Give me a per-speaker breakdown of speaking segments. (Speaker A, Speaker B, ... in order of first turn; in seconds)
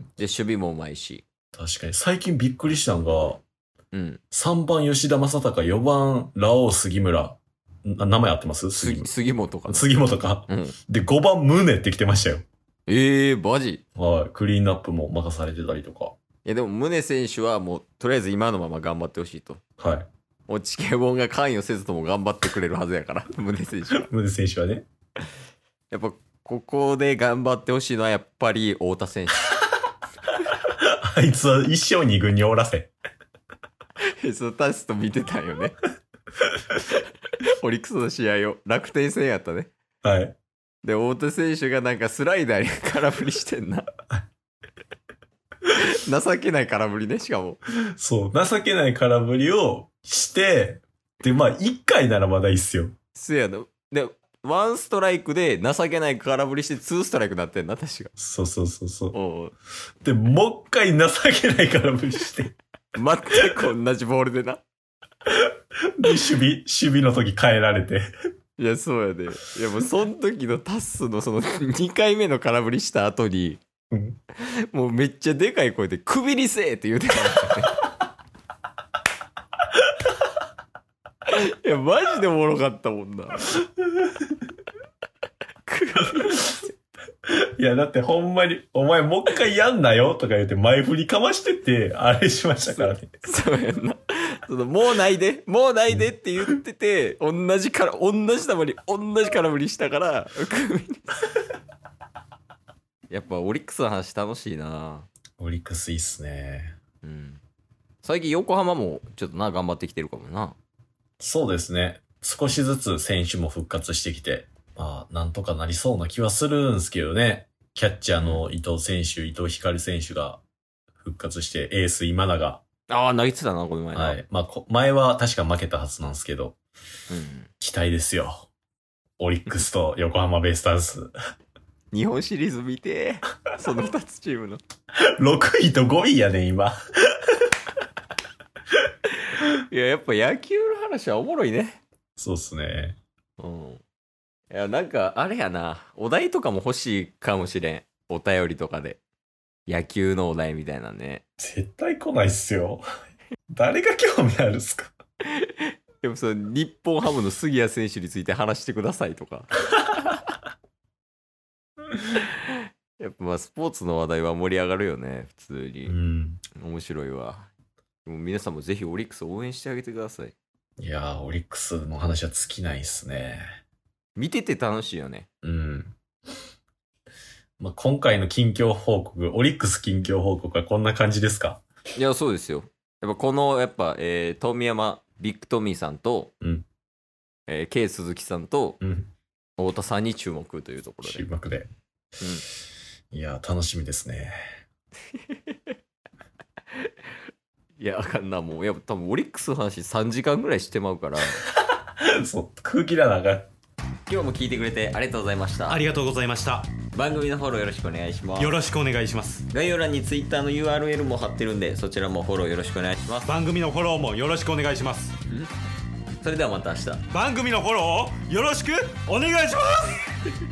Speaker A: 0.2-1.2, 3.9-4.2, 8.8-9.9, 10.5-10.8, 12.9-13.8, 16.4-19.6, 20.5-24.1, 25.9-29.5, 34.2-35.8, 36.9-39.7, 40.8-43.9, 45.7-47.6, 53.1-58.1, 59.1-59.5, 63.0-64.6, 68.6-73.6, 74.4-77.8, 81.3-83.5, 85.7-86.7, 92.7-101.2, 103.1-105.1, 107.0-107.4, 108.0-110.6, 118.2-118.5, 122.9-124.2, 127.1-127.5, 131.9-134.6, 139.1-141.8, 143.4-143.8, 144.5-149.0, 149.7-151.2, 155.3-159.9, 162.1-166.0, 166.6-167.5, 168.1-170.3, 174.2-175.3, 181.9-186.3, 187.5-188.8, 189.6-191.2, 195.1-195.6, 197.8-201.4, 204.1-205.8, 206.9-208.6, 209.5-213.3, 216.2-217.1
Speaker B: 1.5-3.4, 4.3-9.1, 9.7-12.4, 14.0-16.1, 19.8-20.1, 23.9-24.9, 30.7-32.9, 40.0-40.4, 48.0-52.9, 58.2-59.1, 60.0-62.6, 65.3-68.1, 73.9-74.2, 83.9-84.3, 87.3-93.2, 105.4-106.8, 111.2-120.4, 121.0-122.6, 123.9-126.6, 127.6-128.5, 129.2-131.1, 135.2-136.8, 142.2-143.0, 151.4-152.8, 153.5-154.9, 165.9-166.4, 170.8-173.4, 175.4-176.0, 177.6-181.6, 186.4-186.7, 188.8-189.1, 191.0-191.7, 193.1-194.3, 201.4-203.5
Speaker C: 205.7-206.7, 208.4-209.5, 213.3-215.2, 217.1-220.1